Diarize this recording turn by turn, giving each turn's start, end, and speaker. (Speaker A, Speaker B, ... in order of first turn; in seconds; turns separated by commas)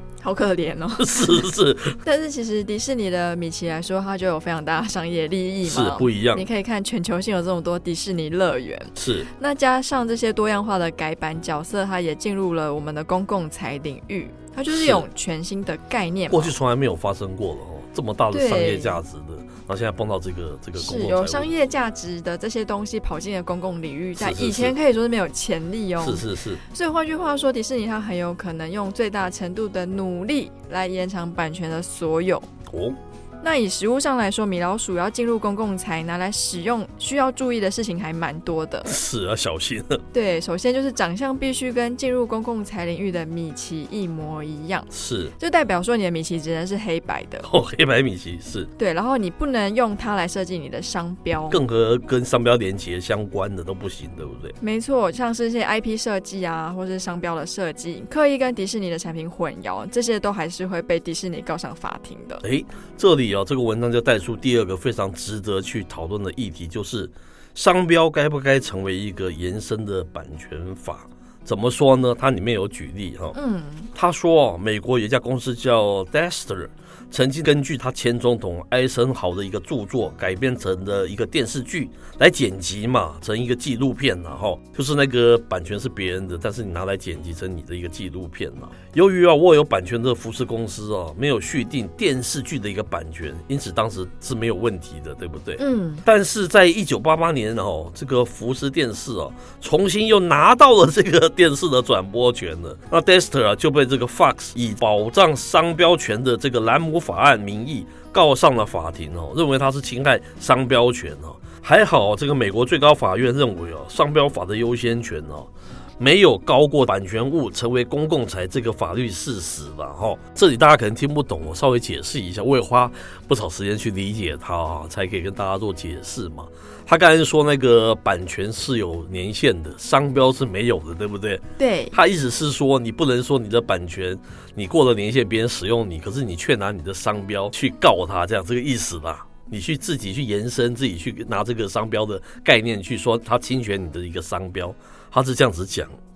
Speaker A: 0.2-1.4, Speaker B: 1.0-2.0, Speaker A: 2.0-16.6, Speaker B: 5.6-6.5, Speaker B: 8.9-9.3, Speaker B: 14.7-15.1, Speaker B: 16.3-21.5, Speaker A: 18.3-19.0, Speaker A: 20.8-32.5, Speaker B: 24.2-24.7, Speaker B: 26.0-26.6, Speaker B: 32.7-33.0, Speaker A: 33.4-39.0, Speaker B: 38.9-40.0, Speaker A: 40.1-47.5, Speaker B: 44.9-45.3, Speaker B: 47.4-48.7, Speaker A: 48.8-51.6, Speaker B: 51.5-54.5, Speaker A: 54.6-62.4, Speaker B: 62.4-73.3, Speaker A: 73.3-73.9, Speaker B: 73.9-145.9, Speaker A: 95.6-96.0, Speaker A: 131.6-131.9